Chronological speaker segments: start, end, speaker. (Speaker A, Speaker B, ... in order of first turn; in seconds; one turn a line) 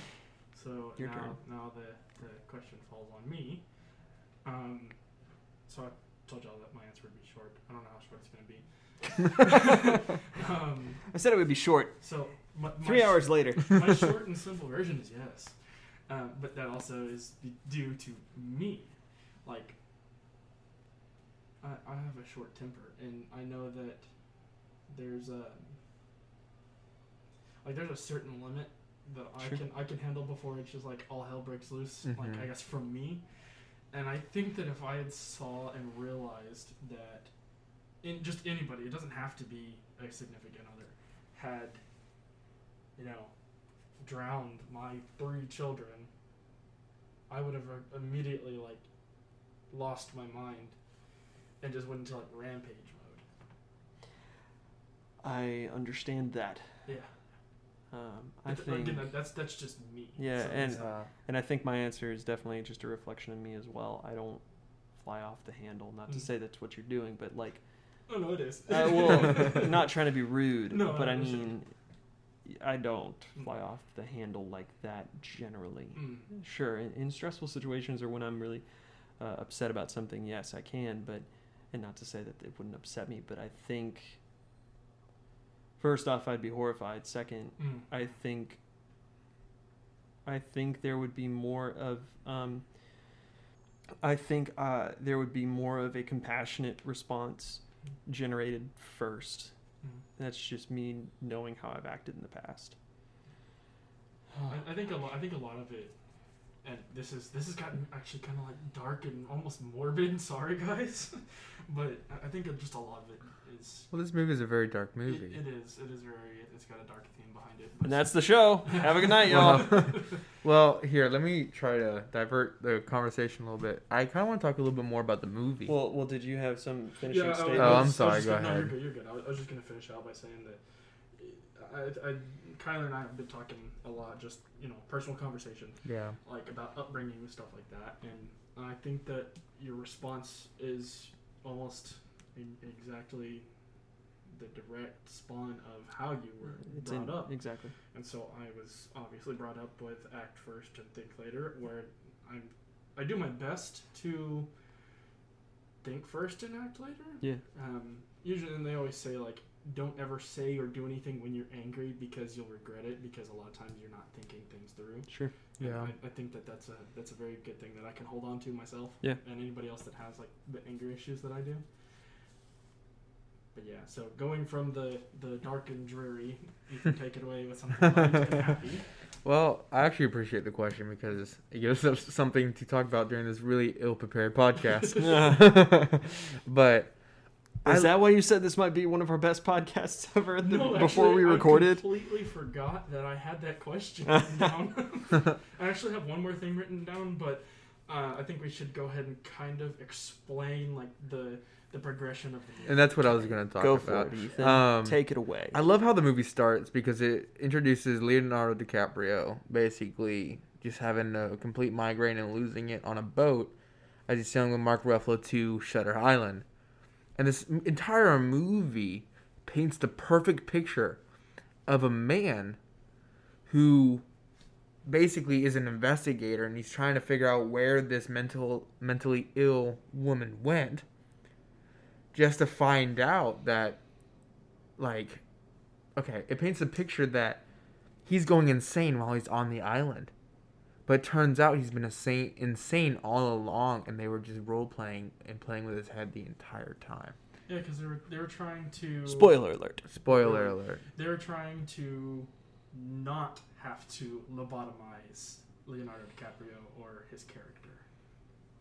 Speaker A: 0.5-3.6
Speaker B: 1.0-1.4
Speaker A: 4.5-5.0
Speaker A: 5.7-11.0
Speaker B: 11.1-12.0
Speaker A: 12.0-15.5
Speaker B: 12.8-14.1
Speaker A: 16.1-18.9
Speaker A: 19.4-19.8
Speaker A: 21.6-24.1
Speaker A: 24.9-25.7
Speaker A: 27.6-33.2
Speaker C: 32.1-32.5
Speaker A: 33.9-37.3
Speaker A: 38.0-41.8
Speaker A: 43.0-43.3
Speaker A: 44.0-46.1
Speaker A: 47.3-48.8
Speaker A: 49.7-50.8
Speaker A: 51.6-53.2
Speaker B: 55.2-56.7
Speaker B: 57.9-59.1
Speaker A: 58.5-60.9
Speaker B: 60.2-64.4
Speaker C: 60.7-61.1
Speaker B: 65.0-67.6
Speaker A: 68.1-69.9
Speaker B: 68.7-71.7
Speaker A: 70.7-71.5
Speaker B: 72.5-78.6
Speaker A: 76.0-76.3
Speaker B: 79.2-84.2
Speaker B: 85.8-88.6
Speaker A: 87.6-87.9
Speaker B: 90.3-92.6
Speaker B: 94.0-99.5
Speaker B: 100.2-102.8
Speaker B: 104.3-104.6
Speaker A: 104.5-105.9
Speaker A: 106.6-113.9
Speaker C: 113.9-115.4
Speaker A: 115.1-120.2
Speaker B: 117.8-119.8
Speaker C: 119.3-125.7
Speaker B: 125.7-128.0
Speaker A: 127.1-130.6
Speaker C: 127.5-128.7
Speaker A: 131.2-143.5
Speaker C: 135.8-136.2
Speaker A: 144.3-147.3
Speaker B: 146.6-147.7
Speaker A: 147.9-154.5
Speaker A: 155.8-171.6
Speaker B: 165.1-165.3
Speaker C: 165.6-165.9
Speaker A: 173.6-178.8
Speaker C: 179.2-186.9
Speaker A: 184.8-185.2
Speaker B: 185.0-185.6
Speaker C: 187.7-187.9
Speaker B: 187.7-191.8
Speaker A: 190.4-203.4
Speaker B: 194.1-194.6
Speaker C: 202.7-205.0
Speaker B: 203.6-205.6
Speaker C: 205.5-213.5
Speaker C: 214.1-216.4
Speaker C: 217.2-221.0
Speaker C: 221.7-222.6
Speaker C: 223.5-224.1
Speaker C: 224.8-230.8
Speaker C: 232.1-233.8
Speaker C: 234.8-235.2
Speaker C: 236.0-237.4
Speaker C: 238.1-240.1
Speaker C: 240.9-247.2
Speaker A: 247.5-249.4
Speaker B: 249.1-249.8
Speaker C: 249.9-250.8
Speaker A: 250.1-257.8